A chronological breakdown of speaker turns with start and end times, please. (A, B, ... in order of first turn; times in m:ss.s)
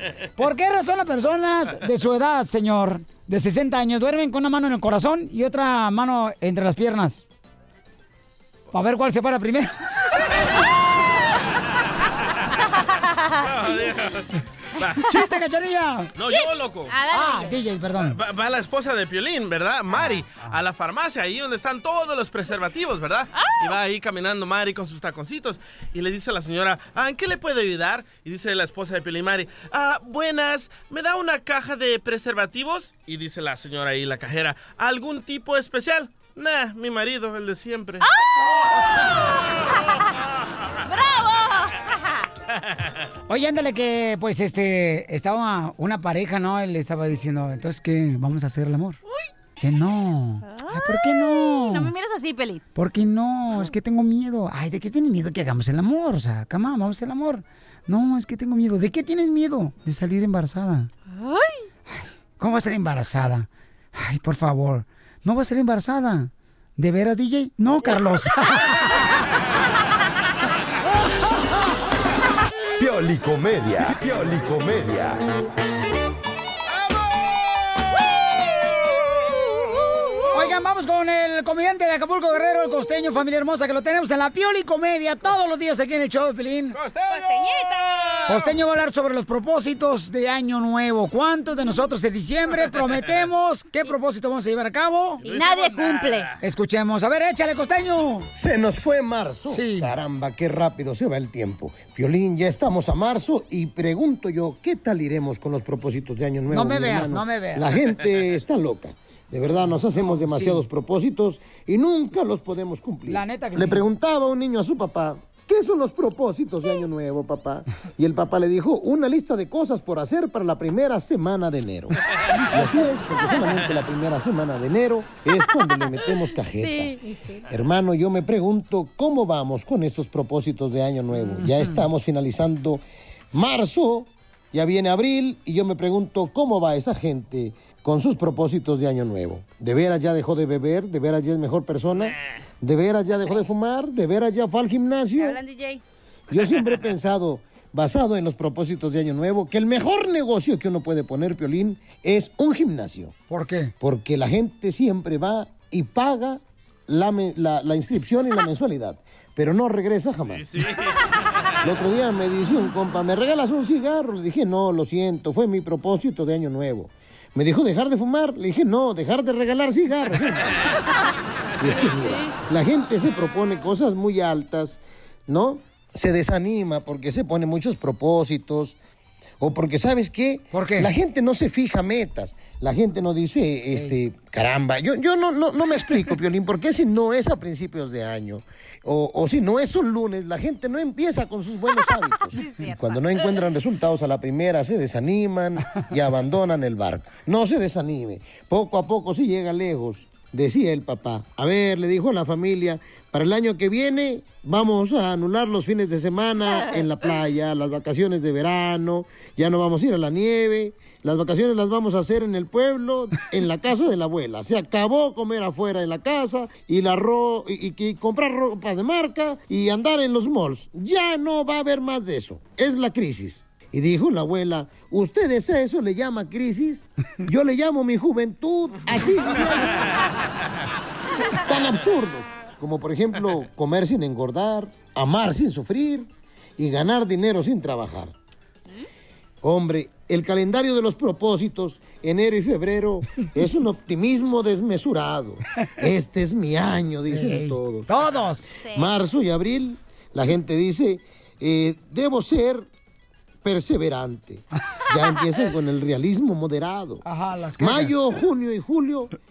0:00.4-0:07.2 A
0:08.7-0:09.7 A
0:13.1-0:13.4 B
0:13.4-0:14.2 C
0:15.0-0:16.1 A
0:16.2-0:16.9 C
0:16.2-0:17.6 B
0:17.1-0:18.2 A
0:18.0-0:38.1 C
0:23.3-0:23.8 B
0:38.0-0:38.5 B
0:40.8-0:42.2 B
0:43.3-0:49.0 A
0:49.6-0:51.9 A
0:50.4-0:52.6 B
0:52.7-1:00.9 A
1:01.1-1:01.6 B
1:01.9-1:09.1 A
1:12.8-1:15.2 D
1:20.3-1:26.8 A
1:26.7-1:28.4 C
1:27.1-1:27.7 B
1:28.3-1:35.2 A
1:35.2-1:36.3 C
1:35.2-1:36.3 B
1:36.4-1:38.3 A
1:38.3-2:02.0 E
1:39.5-1:39.9 A
1:46.5-1:47.7 A
1:49.9-1:50.6 A
1:53.1-1:53.8 A
2:02.5-2:07.0 E
2:07.5-2:25.4 E
2:25.2-2:25.8 B
2:26.3-2:33.1 E
2:33.3-2:33.7 A
2:33.8-2:40.5 E
2:40.3-2:41.0 C
2:41.6-2:50.6 E
2:51.6-2:58.8 E
2:59.4-3:49.9 E
3:00.5-3:00.9 A
3:12.3-3:13.4 B
3:26.5-3:26.8 B
3:51.4-3:58.1 E
3:59.4-4:07.9 E
4:07.1-4:08.5 A
4:08.6-4:08.9 B
4:08.7-4:12.7 E
4:13.4-4:17.0 E
4:17.0-4:17.9 A
4:17.6-4:19.1 E